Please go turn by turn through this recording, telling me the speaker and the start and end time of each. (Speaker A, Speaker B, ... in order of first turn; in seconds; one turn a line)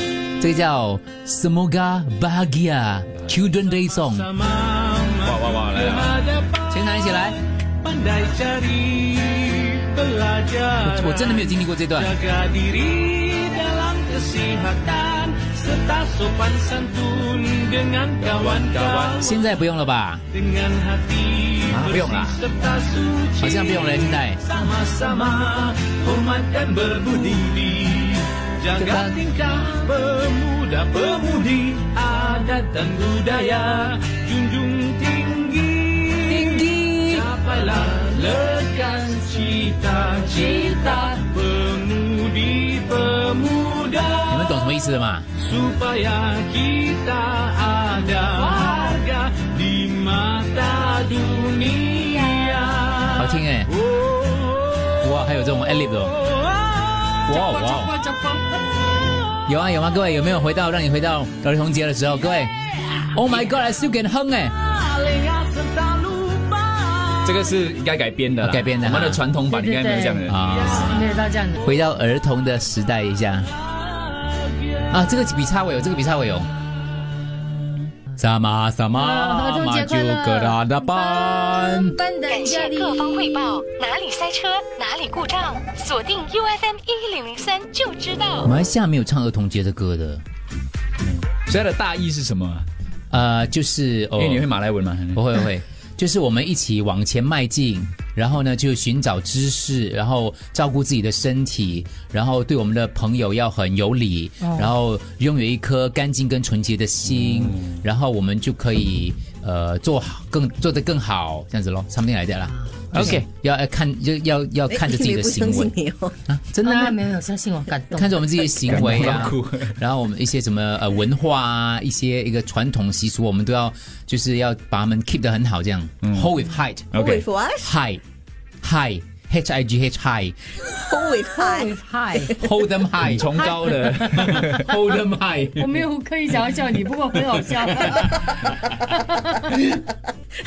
Speaker A: 0.4-4.3
Speaker B: 4.0-19.4
Speaker C: 5.2-6.2
Speaker A: 6.7-7.4
Speaker A: 10.8-12.2
Speaker C: 18.2-19.2
Speaker A: 19.2-20.2
Speaker B: 20.3-44.6
Speaker C: 21.7-22.4
Speaker A: 23.4-24.4
Speaker A: 28.8-29.2
Speaker A: 36.3-37.3
Speaker A: 44.3-45.3
Speaker B: 45.4-55.0
Speaker D: 48.4-49.0
Speaker A: 53.1-53.7
Speaker A: 55.0-56.1
Speaker B: 56.2-57.2
Speaker A: 57.3-58.0
Speaker D: 57.3-58.4
Speaker A: 59.5-62.5
Speaker A: 63.1-64.5
Speaker B: 64.6-67.5
Speaker C: 67.2-70.4
Speaker A: 68.4-69.2
Speaker D: 69.5-70.3
Speaker A: 70.2-71.0
Speaker B: 70.4-71.2
Speaker D: 70.8-71.7
Speaker A: 71.6-73.5
Speaker B: 74.2-74.7
Speaker A: 74.9-76.5
Speaker A: 78.2-82.0
Speaker D: 78.9-83.4
Speaker E: 82.3-88.5
Speaker A: 88.4-90.2
Speaker C: 91.2-92.7
Speaker A: 93.1-94.5
Speaker C: 94.2-95.2
Speaker A: 95.1-115.7
Speaker D: 104.4-104.7
Speaker C: 107.4-107.6
Speaker C: 112.9-113.2
Speaker F: 114.7-116.2
Speaker A: 116.3-117.0
Speaker D: 116.6-118.5
Speaker A: 117.9-127.0
Speaker C: 118.7-119.8
Speaker C: 126.0-126.3
Speaker C: 126.9-127.2
Speaker F: 126.9-127.7
Speaker A: 127.6-128.0
Speaker A: 128.6-130.6
Speaker F: 130.7-131.7
Speaker D: 131.3-132.3
Speaker A: 132.3-135.8
Speaker C: 133.0-134.7
Speaker D: 133.4-134.3
Speaker D: 135.6-139.6
Speaker A: 137.8-138.0